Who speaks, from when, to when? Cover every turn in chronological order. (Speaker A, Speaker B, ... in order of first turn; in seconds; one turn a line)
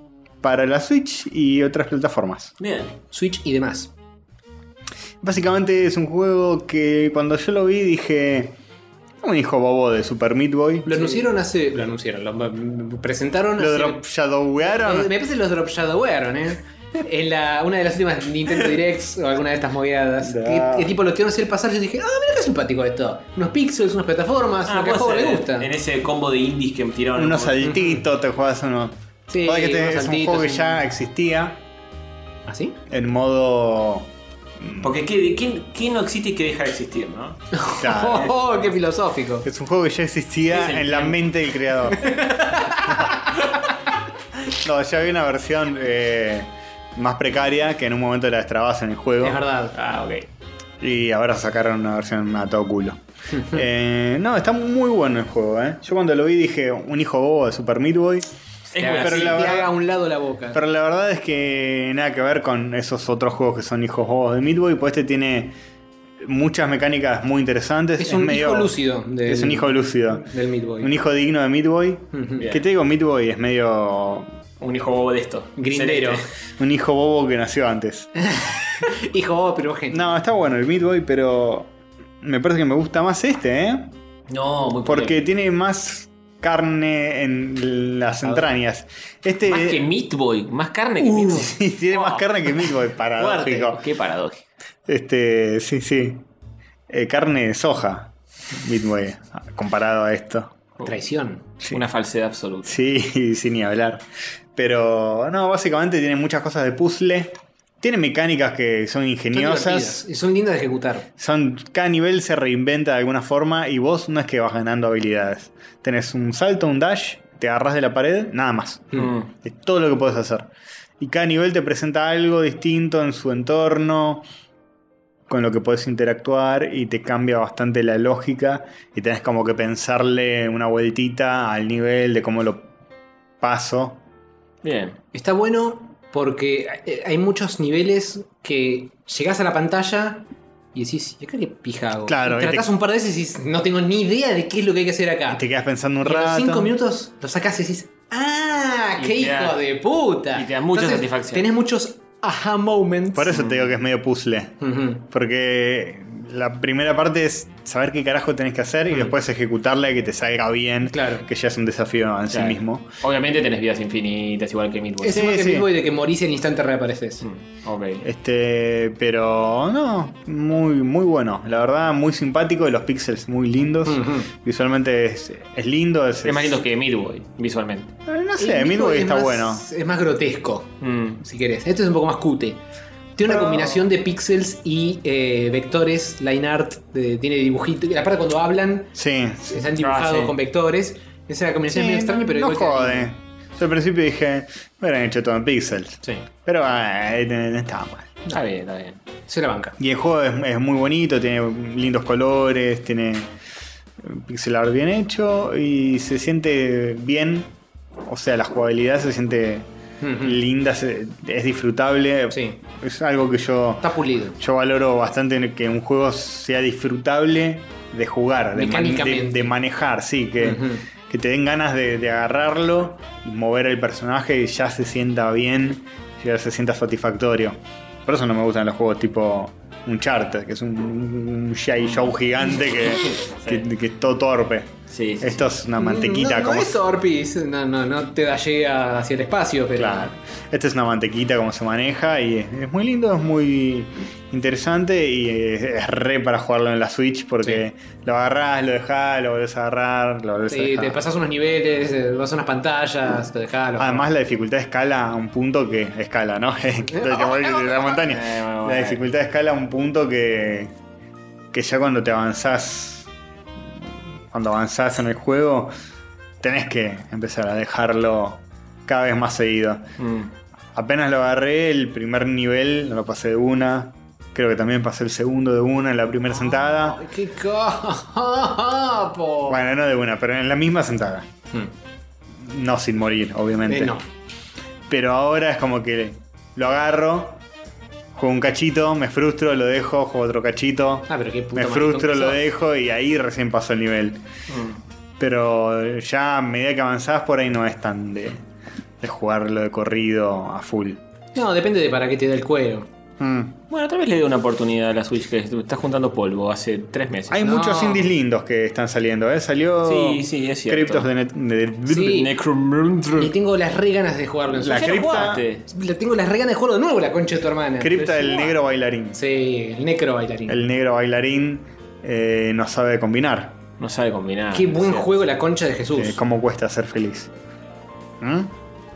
Speaker A: 0.4-2.5
Speaker B: 2.6-3.0
Speaker C: 3.1-3.9
Speaker A: 5.2-8.6
Speaker A: 9.2-11.2
Speaker C: 10.8-14.0
Speaker A: 13.6-15.1
Speaker C: 14.6-25.7
Speaker A: 20.2-20.9
Speaker B: 24.6-27.6
Speaker A: 27.1-31.6
Speaker C: 27.6-28.0
Speaker C: 29.3-30.8
Speaker C: 32.5-32.8
Speaker A: 32.9-34.1
Speaker A: 34.6-34.9
Speaker B: 34.8-37.4
Speaker C: 37.5-39.5
Speaker A: 37.8-38.4
Speaker A: 39.4-42.2
Speaker B: 40.5-41.1
Speaker C: 42.0-43.4
Speaker A: 44.5-49.4
Speaker C: 49.2-49.7
Speaker B: 49.7-50.3
Speaker A: 50.8-58.3
Speaker C: 53.3-53.6
Speaker B: 58.7-59.6
Speaker C: 58.8-60.6
Speaker A: 58.9-59.7
Speaker A: 60.5-65.5
Speaker A: 66.2-68.7
Speaker C: 68.0-70.9
Speaker A: 69.2-70.3
Speaker A: 70.8-74.3
Speaker C: 72.1-72.4
Speaker B: 74.6-76.2
Speaker C: 75.6-76.2
Speaker A: 76.6-78.1
Speaker C: 78.2-80.1
Speaker A: 79.9-81.7
Speaker A: 82.2-83.9
Speaker B: 84.3-85.2
Speaker A: 84.8-89.8
Speaker B: 89.5-92.2
Speaker C: 91.1-91.4
Speaker A: 91.2-93.8
Speaker B: 93.2-94.4
Speaker A: 94.9-96.2
Speaker A: 96.9-100.5
Speaker C: 100.8-101.4
Speaker B: 101.7-102.8
Speaker A: 102.6-104.0
Speaker A: 104.5-110.0
Speaker C: 109.3-111.1
Speaker A: 111.2-124.2
Speaker B: 118.9-119.3
Speaker A: 125.3-132.7
Speaker A: 133.4-134.0
Speaker B: 134.6-135.0
Speaker C: 135.1-145.4
Speaker A: 142.1-142.7
Speaker A: 145.3-146.7
Speaker C: 146.0-153.3
Speaker B: 149.0-149.6
Speaker B: 150.3-151.5
Speaker A: 153.1-162.9
Speaker B: 153.3-153.7
Speaker C: 154.6-155.0
Speaker C: 160.8-161.2
Speaker B: 162.3-165.2
Speaker C: 165.0-167.2
Speaker A: 165.1-165.7
Speaker B: 167.2-168.1
Speaker A: 168.0-176.6
Speaker C: 173.8-174.3
Speaker B: 176.2-177.9
Speaker A: 178.1-179.6
Speaker C: 178.4-182.6
Speaker B: 180.8-181.2
Speaker C: 183.2-188.9
Speaker A: 183.2-183.9
Speaker A: 188.9-189.6
Speaker C: 189.5-193.1
Speaker B: 189.8-190.3
Speaker A: 191.7-198.2
Speaker B: 198.3-199.0
Speaker C: 199.3-199.8
Speaker A: 199.8-203.3
Speaker A: 204.0-207.5
Speaker A: 208.0-209.7
Speaker C: 210.0-210.4
Speaker A: 210.2-236.8
Speaker C: 212.3-212.6
Speaker C: 213.8-214.4
Speaker C: 218.5-219.6
Speaker C: 220.4-220.8
Speaker B: 231.8-232.1
Speaker B: 232.8-233.6
Speaker B: 234.9-235.5
Speaker C: 235.8-240.1
Speaker A: 239.8-251.0
Speaker C: 250.5-254.1
Speaker A: 253.8-260.7
Speaker C: 256.9-258.0
Speaker B: 258.0-259.0
Speaker A: 261.5-263.1
Speaker A: 264.3-265.7
Speaker A: 266.4-269.9
Speaker B: 270.0-270.3
Speaker A: 270.7-277.0
Speaker C: 276.3-279.6
Speaker A: 279.5-281.3
Speaker A: 282.4-283.9
Speaker C: 283.7-284.0
Speaker A: 284.9-287.4
Speaker A: 288.1-294.2
Speaker C: 291.1-292.4
Speaker B: 294.5-294.8
Speaker A: 295.2-298.4
Speaker A: 299.0-301.0
Speaker C: 301.3-302.9
Speaker A: 303.2-303.6
Speaker B: 303.7-307.4
Speaker A: 307.3-312.2
Speaker C: 307.4-308.1
Speaker B: 309.8-311.1
Speaker C: 311.9-312.3
Speaker B: 311.9-313.3
Speaker C: 313.1-318.6
Speaker A: 314.6-315.4
Speaker B: 314.6-315.6
Speaker A: 317.8-319.2
Speaker C: 319.1-320.6
Speaker A: 320.5-323.6
Speaker B: 323.8-325.1
Speaker C: 324.5-326.2
Speaker A: 325.9-327.3
Speaker A: 328.2-328.5